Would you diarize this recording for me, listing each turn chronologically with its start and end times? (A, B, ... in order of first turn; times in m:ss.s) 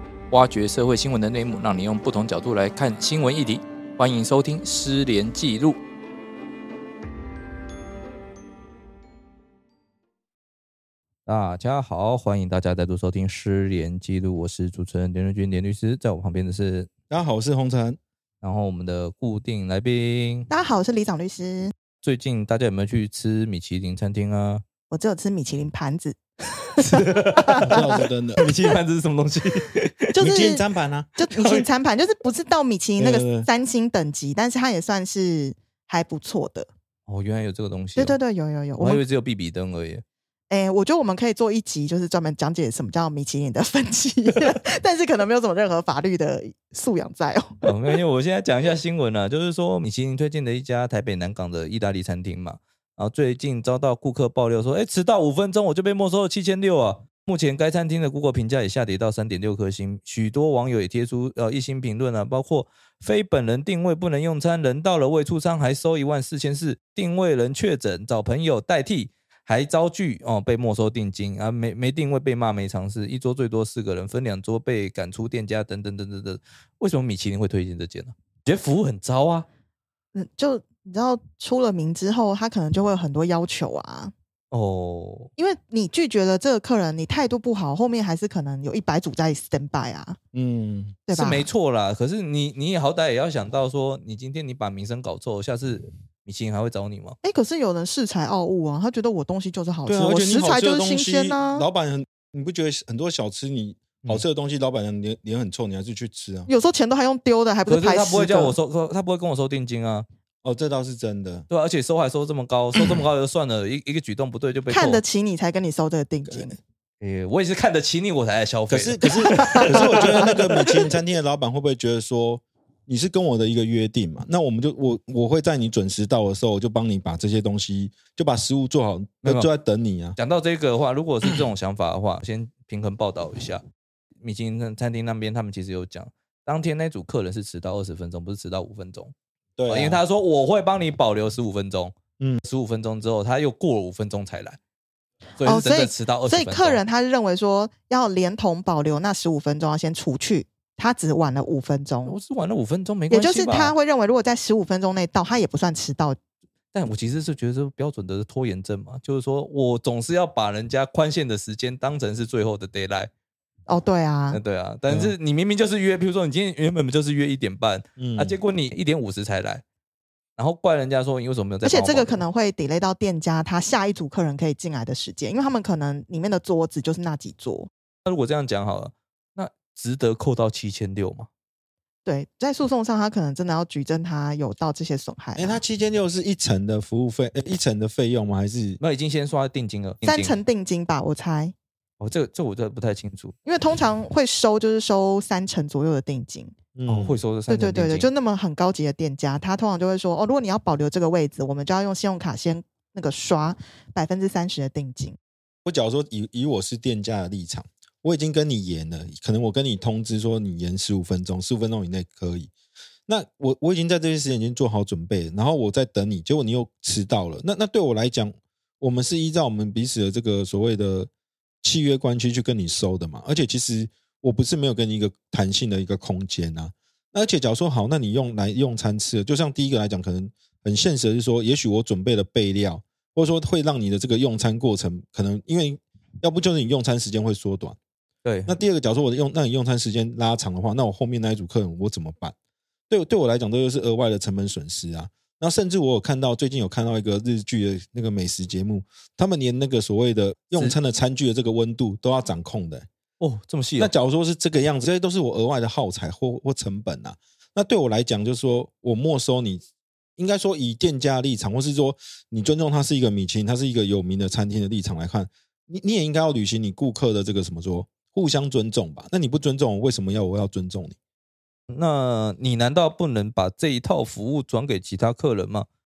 0:00.3-0:05.8 A
0:11.2-0:16.9 A
0:17.1-0:18.0 B
0:18.4-0:20.5 A
0:20.5-0:21.7 C
0:22.0-0:24.6 A
0:24.9-0:26.2 C
0:26.6-0:27.9 A
0:26.9-0:27.8 C
0:27.6-0:28.5 B
0:28.4-0:30.6 A
0:30.2-0:30.6 C
0:30.2-0:31.1 B
0:31.2-0:36.7 C
0:31.3-0:31.7 A
0:33.0-0:33.5 B
0:37.1-0:38.2 A
0:38.0-0:39.0 C
0:38.8-0:40.0 A
0:40.5-0:47.7 C
0:47.6-1:19.5 A
1:20.1-1:24.1 C
1:24.5-1:25.3 A
1:25.4-1:30.2 C
1:30.3-1:31.0 B
1:31.1-1:31.5 C
1:31.1-1:37.2 A
1:37.2-1:41.7 C
1:39.9-1:46.5 B
1:46.5-1:48.6 C
1:47.7-1:50.1 A
1:50.4-1:51.5 B
1:51.5-1:55.0 A
1:54.7-1:56.6 C
1:57.0-2:00.6 A
1:58.7-2:10.2 B
2:09.2-2:09.5 A
2:10.2-2:13.6 A
2:14.2-2:19.1 A
2:19.6-2:20.0 B
2:19.7-2:24.6 A
2:25.4-2:26.8 A
2:25.4-2:32.2 C
2:32.0-2:33.8 A
2:33.1-2:36.2 C
2:36.7-2:43.1 A
2:43.7-2:44.4 C
2:44.3-2:49.6 A
2:44.9-2:45.1 B
2:48.0-2:48.4 B
2:50.4-2:52.2 A
2:51.6-2:57.7 C
2:58.1-3:01.3 A
3:02.0-3:05.6 C
3:05.4-3:08.8 B
3:08.8-3:10.4 A
3:10.0-3:11.6 C
3:12.0-3:13.3 A
3:13.4-3:16.6 C
3:16.8-3:17.2 B
3:16.9-3:18.1 A
3:17.5-3:25.2 C
3:25.7-3:32.5 B
3:33.1-3:41.1 B
3:41.6-3:57.8 B
3:58.2-3:58.6 A
3:58.5-4:02.3 B
4:02.9-4:12.9 B
4:13.2-4:13.9 A
4:13.8-4:19.6 B
4:20.2-4:31.0 B
4:31.7-4:35.7 A